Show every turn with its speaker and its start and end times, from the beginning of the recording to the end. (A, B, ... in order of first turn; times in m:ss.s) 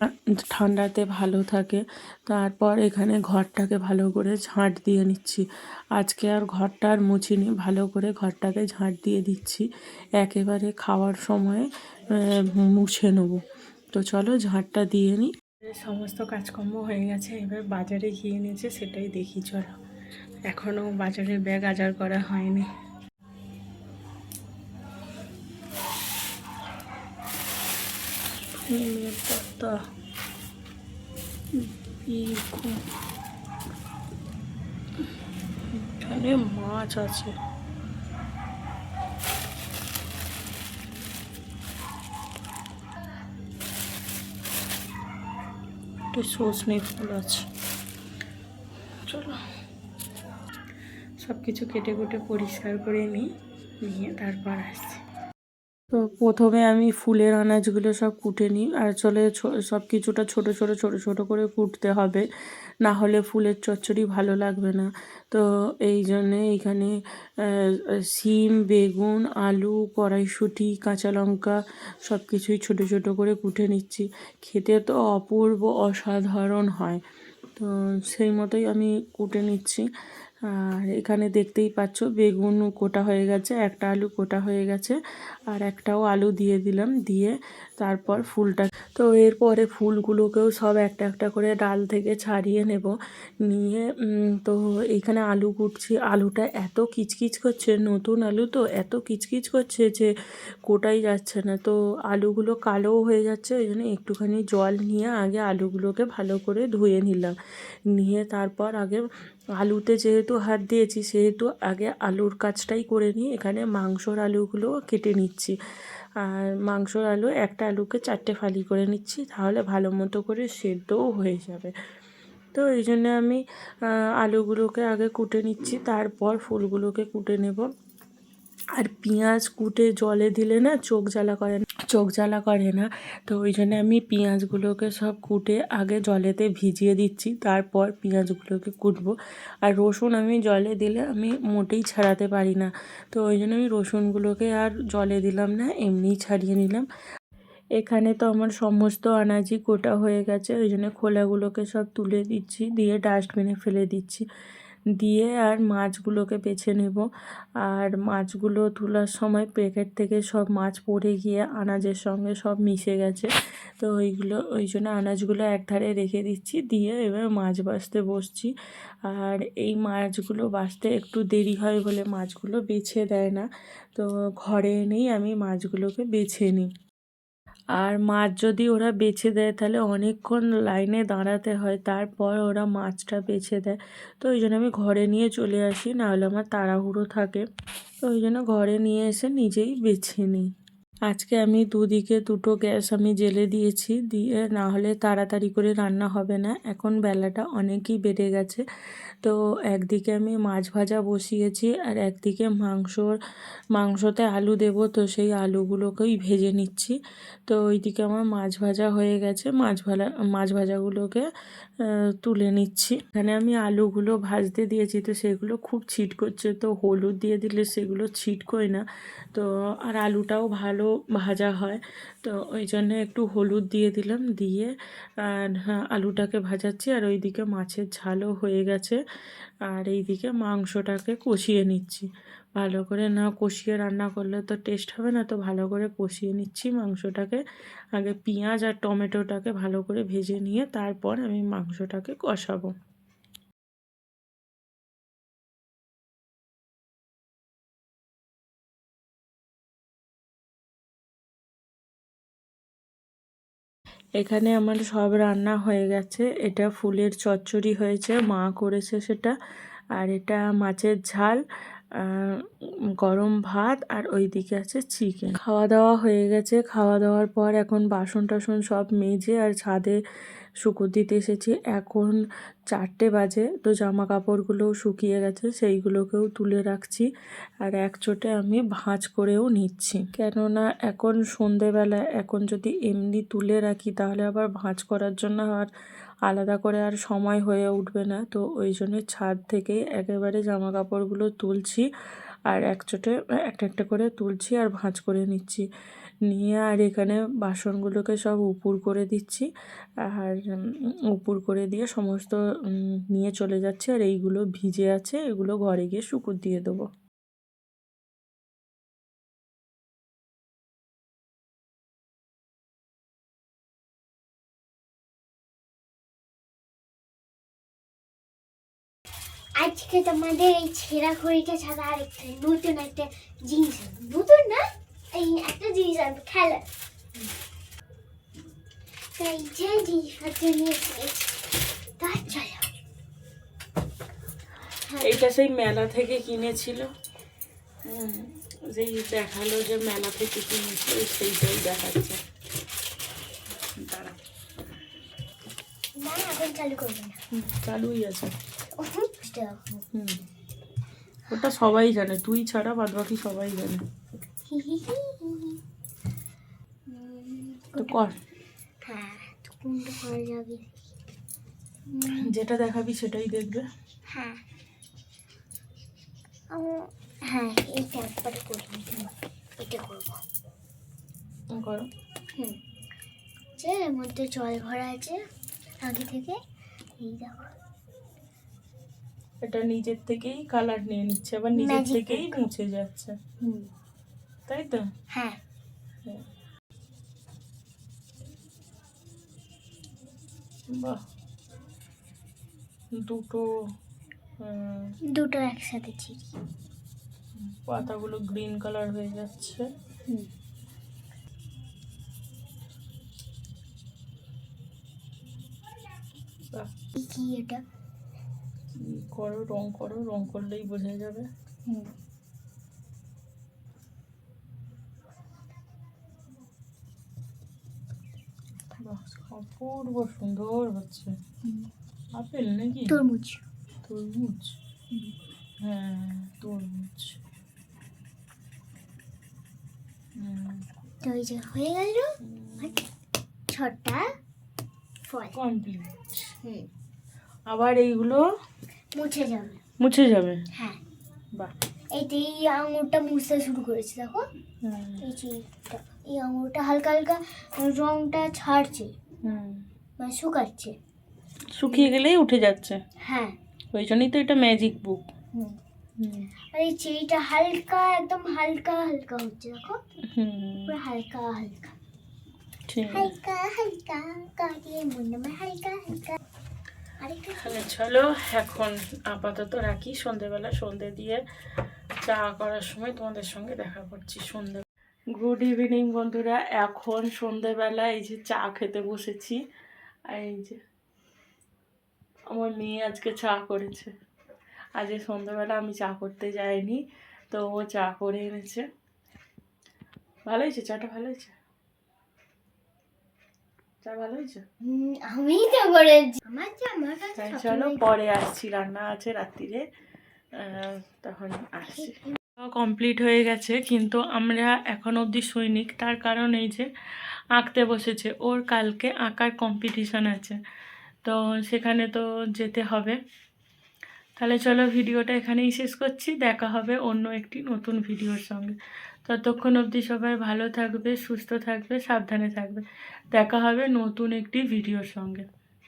0:00.4-0:13.4 A
0:13.9-0:19.7 A
0:20.5-0:22.7 A
0:28.6-0:29.8 A
0:31.6-0:32.8 A
0:35.7-0:37.4 A
0:46.1-0:47.5 A
0:49.1-0:49.4 A
0:51.2-0:53.3 A
0:53.8-0:55.0 A
0:55.9-1:02.2 A
1:02.8-1:17.0 A
1:17.6-1:19.9 A
1:20.5-1:25.0 A
1:25.5-1:33.0 A
1:33.5-1:40.1 A
1:40.6-1:47.4 A
1:47.9-1:49.0 A
1:49.6-1:55.6 A
1:56.2-2:01.7 A
2:02.5-2:07.7 A
2:08.8-2:26.9 A
2:27.8-2:34.2 A
2:35.0-2:37.1 A
2:37.6-2:56.7 A
2:57.8-3:07.4 A
3:08.0-3:10.5 A
3:11.1-3:18.6 A
3:19.2-3:23.2 A
3:23.8-3:31.3 A
3:31.8-3:49.0 A
3:49.7-3:57.4 A
3:57.9-4:02.7 A
4:14.2-4:19.4 A
4:20.0-4:21.4 A
4:22.0-4:22.4 A
4:23.0-4:30.0 A
4:30.6-4:37.1 A
4:37.6-4:45.7 A
4:46.3-4:51.9 A
4:52.5-4:55.7 A
4:56.3-4:59.5 A
5:00.0-5:06.9 A
5:19.6-5:26.7 B
5:29.2-5:32.7 B
5:34.9-5:35.2 B
5:35.0-5:36.9 A
5:37.8-5:42.2 A
5:43.8-5:44.2 A
5:46.0-5:47.2 B
5:47.3-5:48.3 A
5:48.7-5:49.8 B
5:49.9-5:50.2 A
5:51.3-5:53.8 A
5:54.5-5:55.6 B
5:56.9-5:58.0 B
5:57.8-5:58.2 A
5:58.8-6:00.7 B
6:01.9-6:02.3 B
6:02.2-6:03.7 A
6:04.1-6:04.4 B
6:06.5-6:10.2 B
6:11.5-6:11.8 A
6:13.6-6:15.2 B
6:15.8-6:16.4 B
6:17.0-6:17.5 B
6:19.4-6:23.2 A
6:21.6-6:22.4 B
6:23.4-6:23.7 B
6:24.5-6:24.9 A
6:25.1-6:25.4 B
6:30.7-6:31.0 A
6:33.0-6:33.4 A
6:34.4-6:35.0 A
6:35.1-6:36.3 B
6:37.4-6:39.6 A
6:47.0-6:47.6 B
6:48.7-6:51.3 A
6:51.7-6:51.9 B
6:58.8-7:01.1 A
7:01.4-7:01.7 B
7:02.2-7:03.0 A
7:02.9-7:03.4 B
7:03.9-7:04.6 A
7:05.6-7:07.2 A
7:10.2-7:10.6 A
7:11.0-7:12.8 B
7:12.2-7:12.8 A
7:13.5-7:14.1 B
7:15.1-7:15.4 B
7:15.3-7:16.3 A
7:16.4-7:16.7 B
7:17.5-7:18.2 A
7:18.9-7:19.6 B
7:19.8-7:20.4 A
7:20.5-7:20.8 B
7:21.9-7:24.3 B
7:24.6-7:25.0 A
7:25.0-7:28.9 B
7:29.2-7:29.6 A
7:30.0-7:30.8 B
7:31.5-7:32.8 A
7:33.0-7:33.4 B
7:33.7-7:35.1 A
7:36.0-7:36.3 A
7:36.5-7:39.8 B
7:40.1-7:40.7 A
7:40.7-7:41.8 B
7:42.7-7:43.1 A
7:42.9-7:46.2 B
7:47.0-7:47.7 B
7:47.4-7:51.2 A
7:52.0-7:59.4 A
8:00.1-8:00.6 A
8:02.3-8:03.9 A
8:04.8-8:08.6 A
8:10.3-8:11.4 A
8:13.8-8:14.4 A
8:14.6-8:17.8 B
8:17.2-8:19.6 A
8:20.4-8:26.7 A
8:21.8-8:22.2 B
8:27.4-8:30.4 A
8:31.0-8:33.0 A
8:34.2-8:45.3 A